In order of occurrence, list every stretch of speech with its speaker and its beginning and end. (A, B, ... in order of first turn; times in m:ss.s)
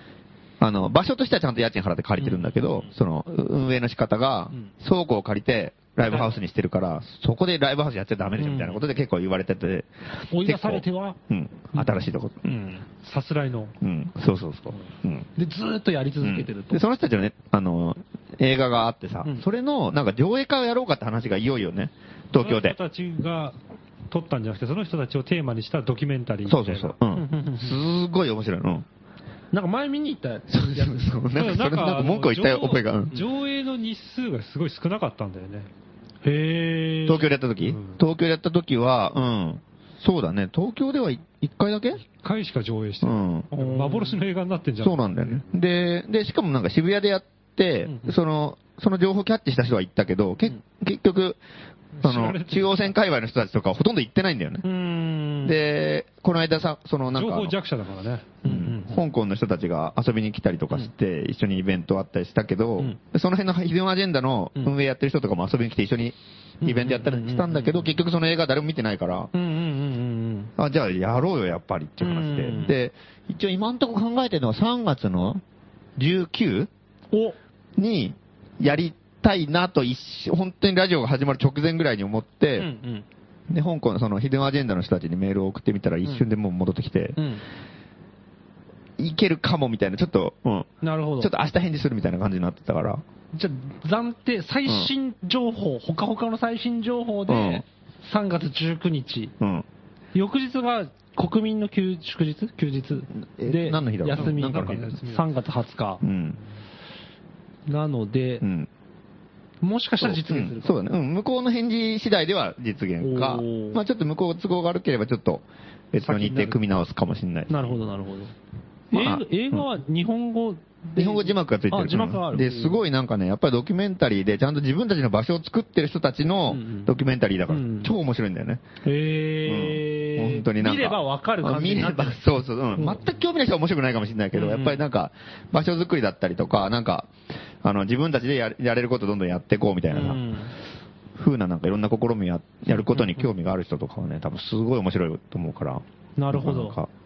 0:00.6-0:09.9 A
0:02.2-0:02.9 B
0:08.4-0:08.8 B
0:10.3-0:11.2 B
0:10.4-0:12.5 A
0:12.4-0:12.8 B
0:13.0-0:13.8 C
0:13.8-0:15.3 A
0:15.4-0:16.8 B
0:16.2-0:22.8 A
0:22.4-0:23.6 C
0:24.1-0:27.0 C
0:26.5-0:28.9 A
0:27.2-0:27.8 B
0:29.5-0:31.4 B
0:30.5-0:33.2 A
0:31.4-0:35.7 C
0:36.2-0:37.3 B
0:37.1-0:42.0 A
0:37.7-0:38.0 C
0:42.2-0:45.5 C
0:43.0-0:43.5 A
0:43.6-0:44.2 B
0:44.8-0:51.4 A
0:47.8-0:48.2 B
0:52.0-0:52.9 C
0:52.0-0:54.6 A
0:54.6-0:55.6 B
0:55.4-0:57.6 A
0:57.2-0:58.4 C
0:58.4-0:58.9 B
0:58.4-1:09.3 A
1:06.6-1:08.0 B
1:09.3-1:10.5 B
1:10.6-1:15.4 A
1:12.0-1:12.8 B
1:16.0-1:16.7 A
1:17.1-1:17.4 B
1:17.8-1:22.7 A
1:22.6-1:23.1 B
1:23.5-1:27.2 A
1:27.2-1:27.4 B
1:29.0-1:33.0 A
1:30.8-1:31.3 B
1:33.3-1:39.3 B
1:37.3-1:37.6 A
1:39.4-1:39.7 A
1:40.1-1:46.0 B
1:43.4-1:44.9 A
1:44.1-1:45.3 C
1:46.0-1:46.4 A
1:47.7-1:48.4 B
1:48.4-1:48.7 A
1:49.6-1:50.8 B
1:50.0-1:57.8 A
1:53.0-1:53.8 B
1:56.0-1:56.7 C
1:57.5-1:58.4 B
1:58.9-1:59.6 A
1:58.9-2:02.8 B
2:01.0-2:08.6 A
2:06.5-2:06.9 B
2:07.5-2:07.9 B
2:08.8-2:12.2 B
2:09.5-2:17.1 A
2:12.8-2:13.1 B
2:14.4-2:14.8 B
2:17.6-2:20.2 A
2:19.9-2:20.5 B
2:21.2-2:26.9 A
2:22.9-2:23.3 B
2:26.2-2:26.8 B